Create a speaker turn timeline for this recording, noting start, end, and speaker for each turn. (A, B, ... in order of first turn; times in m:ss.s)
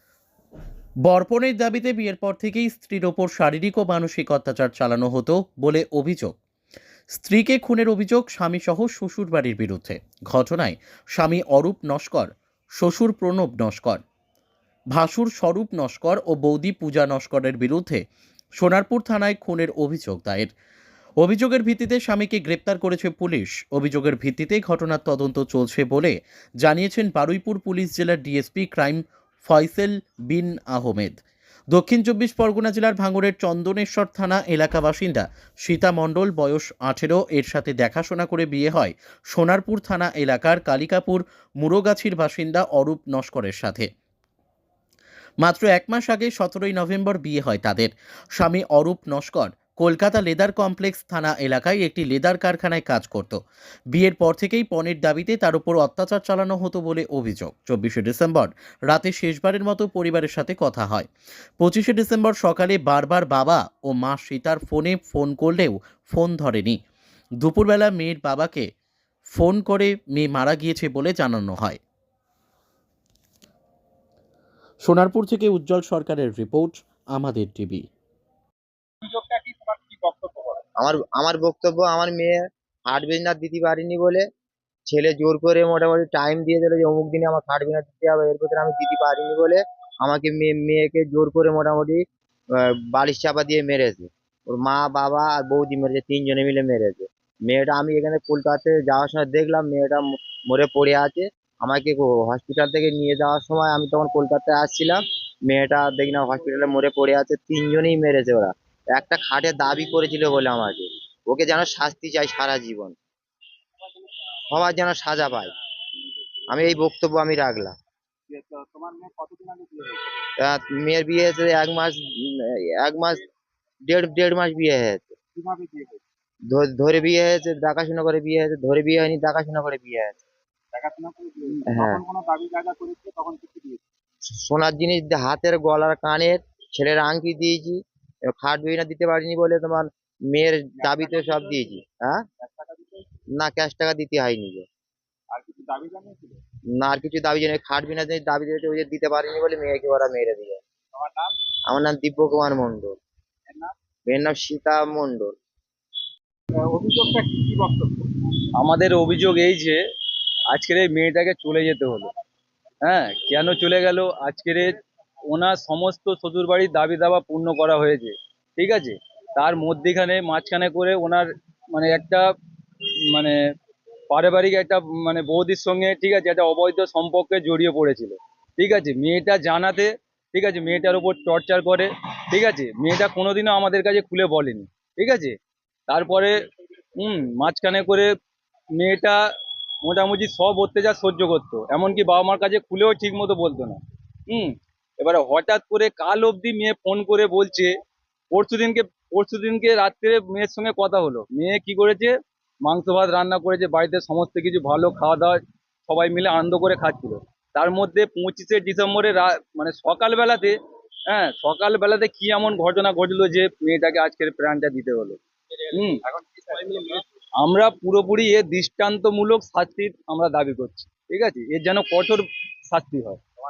0:01.0-0:06.4 A
0:07.1-0:14.0 A
0:14.9-0:18.0 A
0:18.6-0:20.5 A
0:21.2-0:31.2 A
0:31.7-0:43.9 A
0:45.4-0:53.4 A
0:53.9-1:01.1 A
1:01.6-1:06.8 A
1:07.4-1:08.7 A
1:09.3-1:11.8 A
1:14.8-1:17.8 A
1:19.0-1:20.6 B
1:20.8-1:24.2 C
1:24.9-1:32.0 C
1:32.6-1:52.9 C
1:54.5-1:55.5 C
1:56.5-1:57.7 C
1:58.3-2:00.3 B
2:00.4-2:03.2 C
2:03.9-2:05.1 C
2:05.4-2:06.0 B
2:06.5-2:10.2 C
2:10.7-2:13.8 B
2:11.7-2:12.0 C
2:14.3-2:17.8 C
2:18.3-2:22.2 C
2:20.8-2:21.7 B
2:22.4-2:23.1 B
2:23.4-2:24.6 C
2:25.3-2:26.4 B
2:26.8-2:30.6 C
2:31.0-2:31.3 B
2:31.7-2:33.0 C
2:34.1-2:35.3 C
2:36.5-2:38.2 B
2:38.6-2:39.8 D
2:40.5-2:42.1 D
2:42.8-2:44.7 D
2:45.3-2:52.3 D
2:53.1-2:53.4 D
2:54.1-3:05.4 D
3:05.9-3:06.4 D
3:07.0-3:08.1 D
3:08.7-3:09.2 D
3:09.8-3:17.8 D
3:18.3-3:30.6 D
3:31.1-3:35.2 D
3:35.7-3:36.0 D
3:36.4-3:37.0 B
3:37.4-3:43.2 D